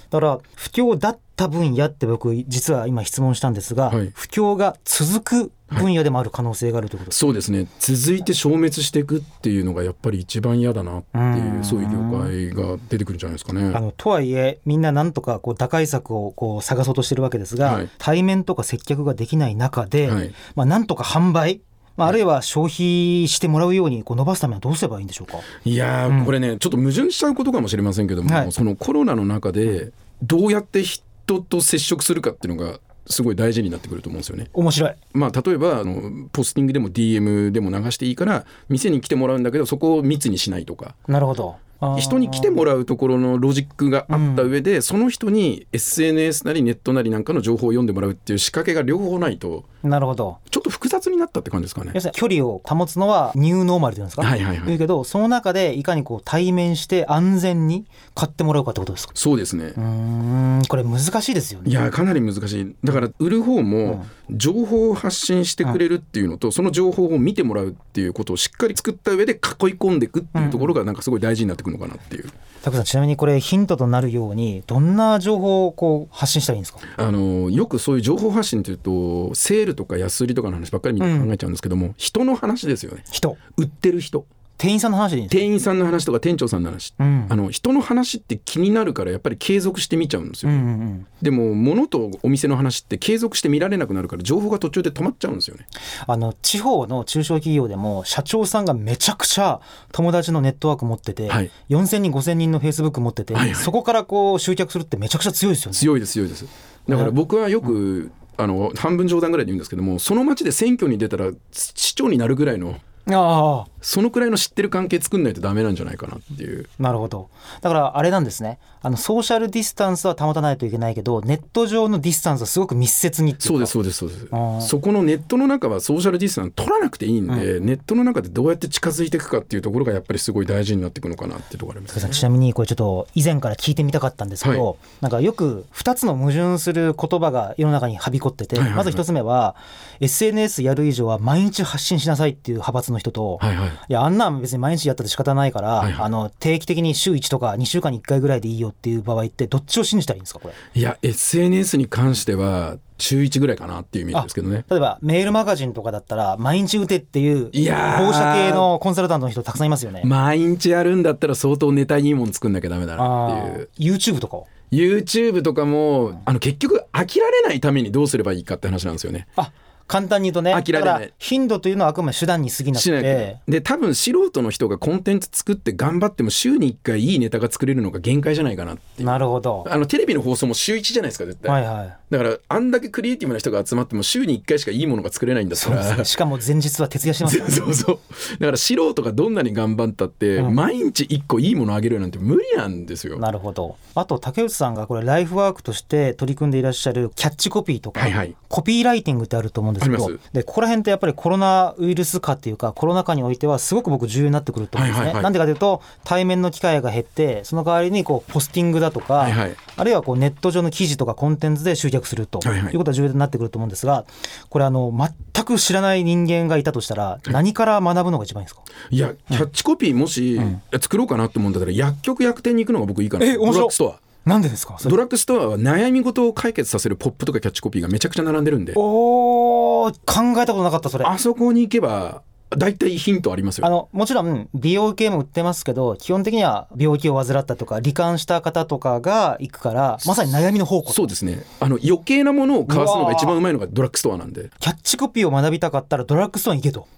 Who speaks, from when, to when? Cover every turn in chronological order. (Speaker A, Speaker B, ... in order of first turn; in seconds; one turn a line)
Speaker A: 0.1-7.2
Speaker B: 7.1-13.8
Speaker A: 11.1-12.3
Speaker A: 13.7-25.5
Speaker B: 17.6-17.9
Speaker B: 20.0-20.3
Speaker B: 25.6-34.5
Speaker A: 26.1-26.3
Speaker A: 28.2-28.5
Speaker A: 34.5-35.0
Speaker B: 35.1-40.9
Speaker A: 41.1-42.6
Speaker B: 41.9-49.6
Speaker A: 44.1-44.5
Speaker A: 49.8-50.4
Speaker B: 50.5-52.0
Speaker A: 51.9-59.1
Speaker B: 54.2-54.8
Speaker B: 59.1-59.8
Speaker A: 59.8-61.8
Speaker B: 61.6-72.3
Speaker A: 70.3-70.8
Speaker A: 72.6-76.8
Speaker B: 77.0-84.3
Speaker A: 81.0-81.3
Speaker A: 83.1-83.4
Speaker A: 84.6-85.5
Speaker B: 85.3-90.7
Speaker A: 87.0-87.3
Speaker A: 90.4-91.1
Speaker B: 91.2-95.6
Speaker A: 96.0-105.9
Speaker B: 103.3-103.7
Speaker B: 105.7-112.8
Speaker A: 113.0-113.7
Speaker B: 113.8-116.7
Speaker A: 116.8-123.7
Speaker B: 123.4-132.2
Speaker A: 124.3-124.7
Speaker A: 131.9-150.6
Speaker B: 134.4-134.7
Speaker B: 138.5-139.0
Speaker B: 143.4-143.8
Speaker B: 145.8-146.0
Speaker B: 150.7-154.7
Speaker A: 154.1-160.1
Speaker B: 157.5-158.7
Speaker B: 160.0-163.7
Speaker A: 163.0-164.5
Speaker B: 164.7-169.3
Speaker A: 169.3-173.4
Speaker B: 170.5-171.1
Speaker B: 172.7-181.6
Speaker A: 179.0-179.7
Speaker A: 181.5-182.0
Speaker B: 182.1-186.1
Speaker A: 185.5-187.7
Speaker B: 187.2-193.2
Speaker A: 193.2-218.7
Speaker B: 197.9-198.3
Speaker B: 199.8-200.2
Speaker B: 204.7-205.3
Speaker B: 209.2-209.6
Speaker B: 212.4-212.8
Speaker B: 218.9-224.0
Speaker A: 223.2-225.0
Speaker B: 224.8-228.8
Speaker A: 228.7-231.1
Speaker B: 231.0-233.7
Speaker A: 233.6-241.1
Speaker B: 240.9-244.5
Speaker A: 242.7-243.4
Speaker A: 244.6-246.9